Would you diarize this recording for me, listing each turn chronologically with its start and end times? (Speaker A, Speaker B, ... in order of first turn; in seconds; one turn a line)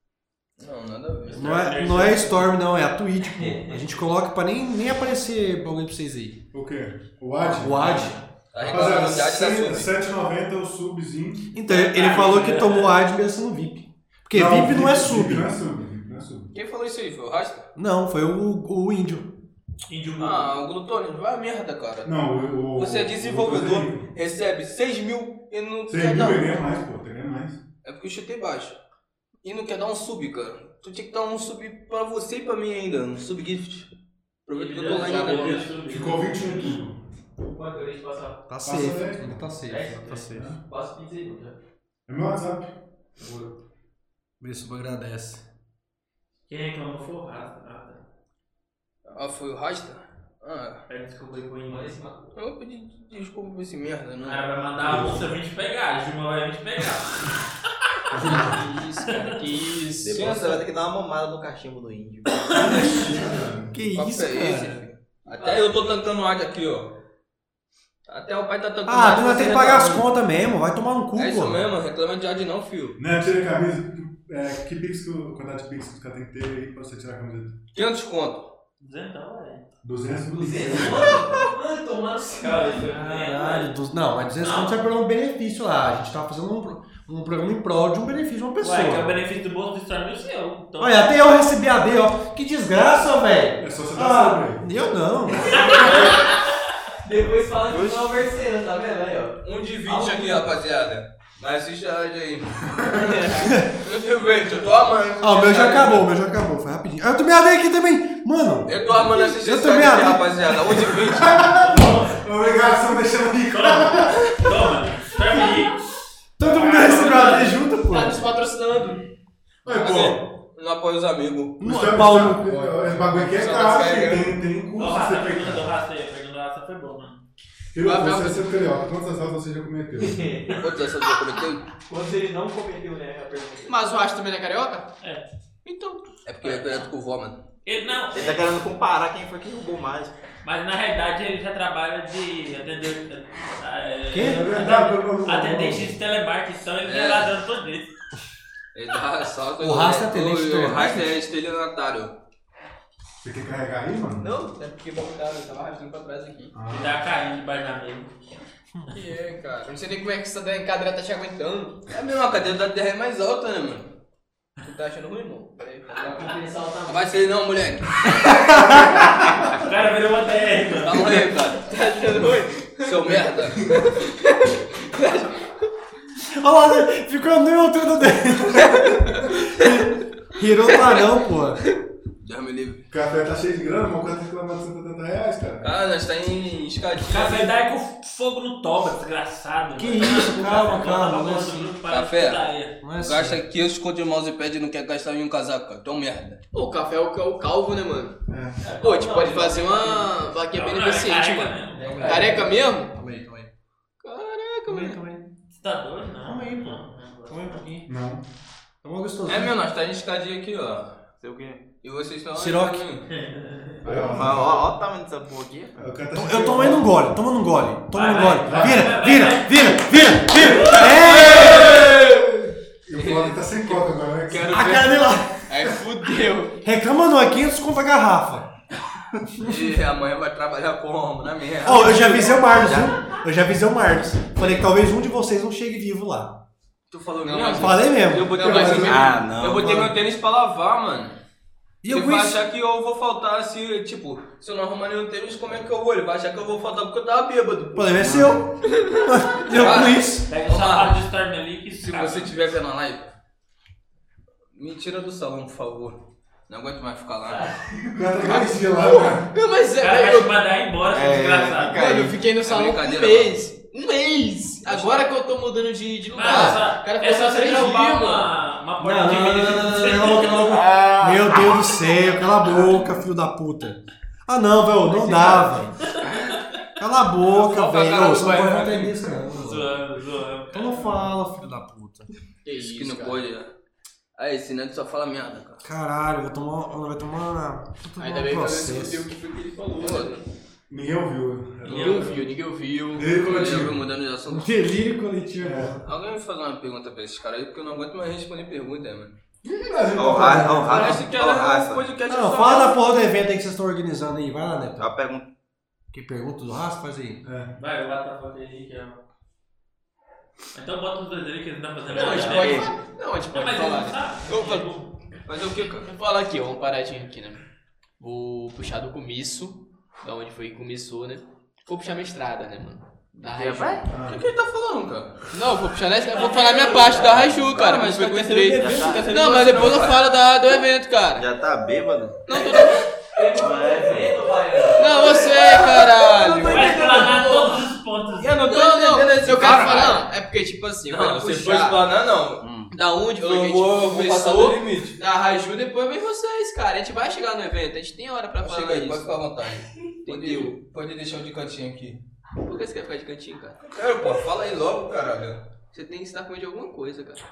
Speaker A: 0.6-1.5
Speaker B: 1.3-2.5
Speaker C: 1.3-6.4
Speaker D: 3.5-3.8
Speaker E: 6.5-11.5
Speaker C: 7.4-8.2
Speaker A: 8.5-9.9
Speaker C: 11.5-15.5
Speaker B: 11.7-12.9
Speaker E: 14.3-16.5
Speaker A: 16.5-17.7
Speaker C: 17.7-19.3
Speaker B: 19.9-20.5
Speaker A: 20.2-22.1
Speaker E: 22.0-24.1
Speaker A: 22.7-26.6
Speaker E: 25.9-27.6
Speaker A: 27.8-28.8
Speaker A: 29.4-33.9
Speaker A: 34.5-35.6
Speaker B: 34.5-36.8
Speaker D: 35.1-35.4
Speaker E: 35.8-37.0
Speaker D: 37.4-38.5
Speaker C: 38.5-40.5
Speaker E: 38.6-39.4
Speaker D: 39.6-41.5
Speaker E: 40.3-40.6
Speaker E: 42.1-42.7
Speaker D: 43.2-43.5
Speaker C: 44.4-45.4
Speaker B: 46.5-48.0
Speaker A: 49.1-50.8
Speaker B: 50.9-51.9
Speaker D: 51.7-52.3
Speaker A: 52.4-54.4
Speaker B: 54.2-57.4
Speaker E: 54.8-55.3
Speaker E: 58.1-58.6
Speaker F: 58.2-60.4
Speaker B: 59.1-59.4
Speaker G: 60.0-63.1
Speaker A: 60.1-60.6
Speaker E: 62.5-63.7
Speaker C: 63.9-64.7
Speaker A: 63.9-66.9
Speaker A: 68.1-70.0
Speaker C: 68.8-71.6
Speaker A: 71.2-73.0
Speaker E: 73.0-77.5
Speaker A: 77.7-78.5
Speaker B: 78.8-79.6
Speaker E: 79.8-81.2
Speaker D: 80.3-83.1
Speaker B: 82.4-83.7
Speaker C: 82.9-89.2
Speaker B: 84.4-84.7
Speaker B: 88.6-91.4
Speaker C: 90.8-95.9
Speaker E: 93.6-94.6
Speaker D: 95.5-96.3
Speaker B: 95.5-96.5
Speaker D: 97.0-100.5
Speaker G: 97.7-98.2
Speaker A: 99.4-106.1
Speaker E: 102.7-103.2
Speaker F: 102.9-103.5
Speaker C: 105.2-110.3
Speaker A: 108.7-111.5
Speaker E: 111.1-114.6
Speaker B: 111.5-112.2
Speaker B: 113.5-115.8
Speaker C: 116.4-118.2
Speaker B: 116.4-117.5
Speaker F: 117.0-119.0
Speaker A: 119.7-121.6
Speaker C: 119.7-120.2
Speaker E: 119.9-120.1
Speaker C: 121.6-123.1
Speaker E: 121.6-125.7
Speaker F: 123.3-124.3
Speaker B: 124.8-127.2
Speaker E: 127.7-130.2
Speaker F: 127.8-128.5
Speaker D: 130.0-130.6
Speaker A: 130.6-131.6
Speaker D: 131.9-133.8
Speaker F: 133.7-134.9
Speaker F: 135.6-136.0
Speaker A: 136.2-137.4
Speaker B: 136.4-136.9
Speaker B: 137.6-138.5
Speaker G: 138.1-140.1
Speaker B: 140.4-147.9
Speaker C: 144.1-144.4
Speaker E: 144.2-145.8
Speaker A: 146.8-147.3
Speaker A: 148.7-152.1
Speaker C: 149.6-151.2
Speaker E: 153.2-154.3
Speaker F: 154.2-155.6
Speaker A: 155.5-156.5
Speaker E: 156.5-157.0
Speaker B: 156.7-158.1
Speaker F: 158.9-161.8
Speaker A: 161.9-163.9
Speaker A: 164.6-166.3
Speaker D: 166.0-167.2
Speaker A: 166.9-168.4
Speaker E: 168.7-169.1
Speaker B: 169.5-171.1
Speaker A: 170.8-171.7
Speaker F: 171.6-175.3
Speaker A: 172.8-173.9
Speaker C: 176.3-181.6
Speaker A: 182.2-182.8
Speaker E: 182.9-185.7
Speaker A: 185.6-187.5
Speaker B: 187.0-192.7
Speaker C: 189.7-191.7
Speaker A: 191.9-192.4
Speaker C: 192.8-193.4
Speaker A: 193.0-196.4
Speaker F: 196.5-198.2
Speaker E: 198.3-198.6
Speaker B: 198.7-199.5
Speaker D: 198.8-200.1
Speaker F: 198.8-202.9
Speaker B: 200.5-202.4
Speaker D: 201.8-202.6
Speaker C: 201.8-203.5
Speaker F: 204.0-205.0
Speaker C: 204.7-205.3
Speaker B: 205.5-207.6
Speaker C: 206.2-207.9
Speaker E: 207.8-208.2
Speaker C: 208.8-209.6
Speaker A: 209.2-211.0
Speaker G: 211.2-211.6
Speaker A: 211.8-213.1
Speaker C: 212.3-212.9
Speaker B: 213.1-214.1
Speaker E: 213.8-214.7
Speaker G: 213.8-215.8
Speaker E: 215.8-216.9
Speaker C: 216.1-221.7
Speaker B: 217.9-221.1
Speaker E: 218.4-219.0
Speaker F: 220.8-222.1
Speaker A: 220.9-222.0
Speaker E: 221.2-224.6
Speaker A: 222.9-225.0
Speaker C: 224.5-225.5
Speaker F: 225.5-226.6
Speaker C: 226.6-228.5
Speaker A: 229.4-232.9
Speaker C: 231.6-236.4
Speaker A: 236.9-241.1
Speaker F: 237.2-239.6
Speaker C: 237.5-238.4
Speaker E: 238.3-239.0
Speaker G: 238.8-239.9
Speaker C: 241.8-242.4
Speaker A: 241.9-248.1
Speaker C: 247.7-250.2
Speaker G: 248.0-248.4
Speaker A: 249.5-251.0
Speaker B: 250.3-252.3
Speaker A: 251.8-253.1
Speaker A: 254.5-256.0
Speaker A: 256.5-257.4
Speaker E: 257.9-259.3
Speaker F: 258.3-260.4
Speaker B: 259.8-261.8
Speaker G: 260.9-262.2
Speaker F: 261.7-268.3
Speaker A: 262.4-263.4
Speaker A: 264.6-265.1
Speaker B: 266.1-270.6
Speaker C: 266.3-266.6
Speaker C: 268.8-275.8
Speaker G: 270.5-271.7
Speaker G: 272.6-272.9
Speaker F: 274.9-275.5
Speaker C: 276.8-279.7
Speaker F: 277.3-279.0
Speaker B: 279.3-280.7
Speaker C: 280.5-282.1
Speaker F: 282.4-283.2
Speaker A: 282.5-283.5
Speaker A: 284.2-285.6
Speaker C: 285.6-289.0
Speaker F: 288.0-290.2
Speaker A: 289.8-290.1
Speaker E: 290.7-292.2
Speaker B: 291.6-292.2
Speaker F: 291.7-293.7
Speaker E: 292.9-293.9
Speaker A: 293.2-294.6
Speaker C: 294.3-295.8
Speaker E: 295.4-295.8
Speaker A: 295.9-299.1
Speaker E: 299.4-301.0
Speaker G: 299.9-301.9
Speaker A: 300.7-302.8
Speaker C: 302.1-304.9
Speaker G: 304.8-305.3
Speaker C: 305.9-307.2
Speaker E: 307.2-307.5
Speaker B: 307.6-309.0
Speaker B: 310.5-312.7
Speaker F: 311.9-314.7
Speaker A: 312.1-312.6
Speaker B: 313.3-314.9
Speaker A: 315.2-315.9
Speaker F: 315.9-317.4
Speaker F: 318.0-323.9
Speaker G: 323.2-323.9
Speaker E: 323.9-324.2
Speaker A: 324.0-325.2
Speaker F: 325.3-331.2
Speaker B: 326.0-327.1
Speaker D: 326.6-327.0
Speaker A: 327.4-330.1
Speaker G: 328.4-329.5
Speaker G: 331.2-332.2
Speaker F: 332.3-332.9
Speaker A: 332.3-332.8
Speaker D: 333.1-335.6
Speaker G: 333.3-334.2
Speaker F: 334.8-337.5
Speaker A: 335.1-337.3
Speaker G: 336.1-336.7
Speaker B: 336.5-338.3
Speaker A: 338.2-340.0
Speaker F: 338.3-341.8
Speaker A: 340.9-342.4
Speaker G: 342.4-342.7
Speaker F: 342.7-349.0
Speaker A: 343.1-345.0
Speaker A: 348.4-352.0
Speaker F: 350.0-350.5
Speaker F: 352.4-353.6
Speaker A: 353.6-355.5
Speaker F: 355.7-357.2